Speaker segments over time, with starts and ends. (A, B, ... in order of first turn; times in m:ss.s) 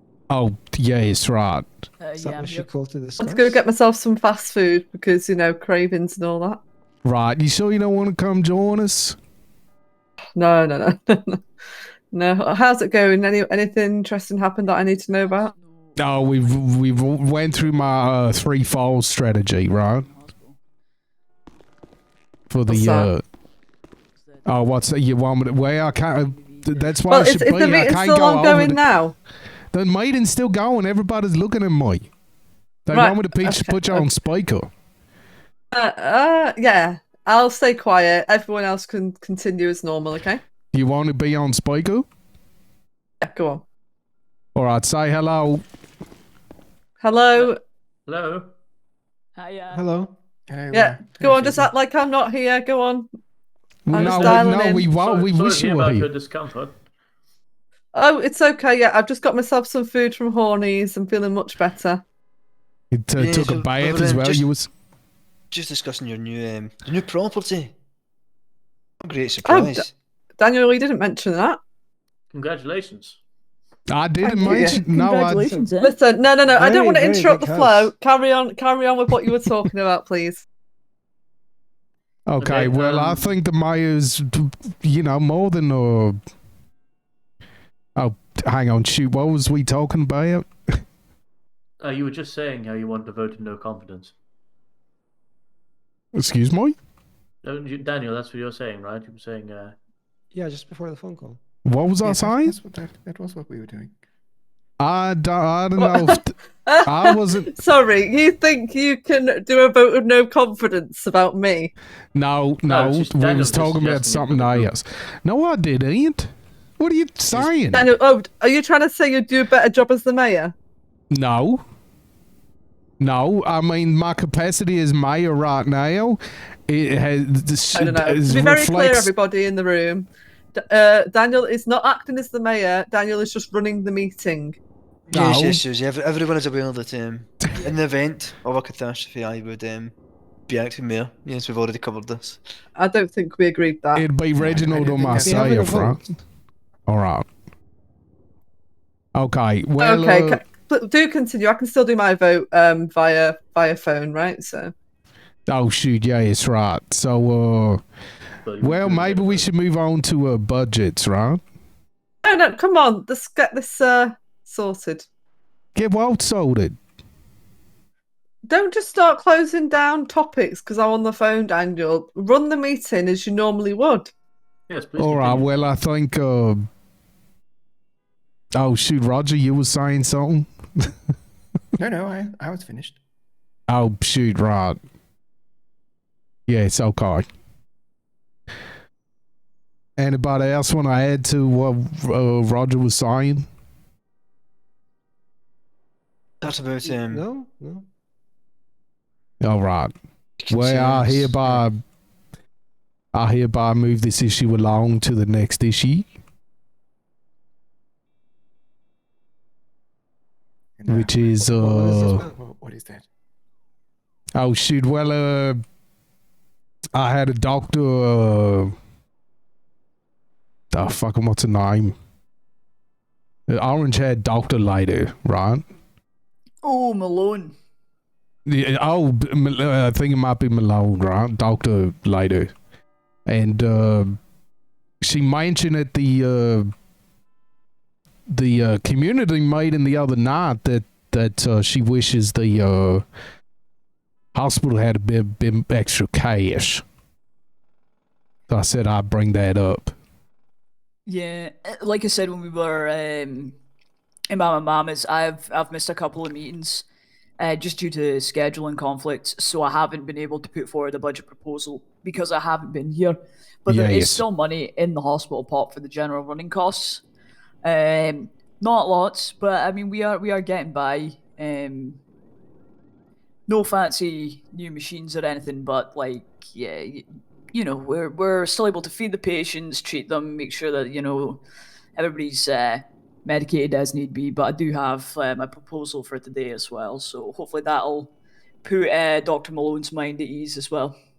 0:00.3-0:01.7 A
0:02.0-0:02.7 B
0:02.2-0:03.6 C
0:03.2-0:06.6 D
0:07.0-0:09.2 A
0:10.4-0:11.4 D
0:12.1-0:15.5 D
0:14.6-0:17.7 B
0:16.0-0:20.1 A
0:19.8-0:20.6 B
0:22.5-0:23.2 A
0:22.7-0:23.1 D
0:24.2-0:24.6 B
0:24.5-0:28.8 A
0:25.6-0:27.0 B
0:27.1-0:29.2 D
0:29.7-0:32.1 A
0:32.9-0:34.7 A
0:32.9-0:34.1 D
0:35.7-0:40.4 D
0:40.7-0:42.1 A
0:43.2-0:43.6 D
0:44.6-0:45.6 A
0:47.0-0:47.6 D
0:48.1-0:48.5 E
0:49.4-0:49.9 B
0:49.7-0:50.1 C
0:50.5-0:51.7 F
0:50.7-0:53.1 D
0:53.9-0:56.1 A
0:53.9-0:54.9 D
0:53.9-0:56.8 E
0:57.9-1:02.0 D
1:02.9-1:04.7 A
1:03.2-1:04.5 G
1:05.5-1:07.7 G
1:09.0-1:09.9 G
1:09.4-1:09.9 D
1:10.4-1:11.6 D
1:12.3-1:13.2 E
1:13.9-1:15.5 A
1:14.3-1:14.8 D
1:14.5-1:16.0 B
1:15.3-1:15.7 C
1:15.8-1:20.4 D
1:16.5-1:17.9 C
1:22.3-1:26.2 A
1:22.4-1:23.4 E
1:28.0-1:30.5 A
1:31.8-1:34.1 E
1:36.1-1:36.8 A
1:37.4-1:39.8 E
1:40.3-1:41.4 C
1:41.6-1:42.6 A
1:42.0-1:43.9 F
1:44.8-1:47.5 A
1:45.8-1:51.7 D
1:52.2-1:57.9 A
1:52.7-1:54.7 E
1:57.7-2:00.5 D
2:01.1-2:01.6 A
2:03.0-2:09.1 A
2:07.7-2:14.6 D
2:15.1-2:19.9 G
2:15.1-2:15.6 A
2:20.5-2:22.4 G
2:22.8-2:24.0 D
2:24.0-2:26.0 A
2:24.4-2:25.5 F
2:25.1-2:26.0 C
2:26.9-2:27.3 A
2:29.2-2:30.4 A
2:29.8-2:34.7 D
2:35.5-2:37.8 A
2:38.4-2:39.5 E
2:38.6-2:41.4 A
2:42.2-2:45.1 D
2:45.8-2:46.8 A
2:48.5-2:54.1 D
2:54.7-2:55.5 E
2:55.0-2:56.6 A
2:58.6-3:00.9 A
3:01.8-3:03.0 F
3:03.7-3:04.8 A
3:06.5-3:07.2 A
3:10.0-3:13.5 A
3:16.4-3:17.3 G
3:16.8-3:17.9 C
3:19.4-3:19.9 A
3:20.4-3:21.6 G
3:20.5-3:21.8 A
3:23.1-3:26.1 A
3:30.8-3:31.5 F
3:30.9-3:32.2 A
3:31.5-3:32.4 C
3:32.1-3:33.0 F
3:34.4-3:35.6 A
3:36.9-3:38.7 A
3:40.7-3:42.0 A
3:43.5-3:45.6 A
3:46.6-3:47.5 B
3:48.5-3:52.5 A
3:53.3-3:54.2 A
3:55.0-3:56.7 A
3:58.3-4:03.0 A
4:04.4-4:06.8 A
4:08.5-4:09.9 A
4:11.1-4:13.6 B
4:14.3-4:16.8 B
4:17.4-4:27.0 B
4:23.7-4:24.2 A
4:27.6-4:32.0 B
4:33.5-4:41.4 B
4:42.0-4:48.1 B
4:48.6-4:51.0 B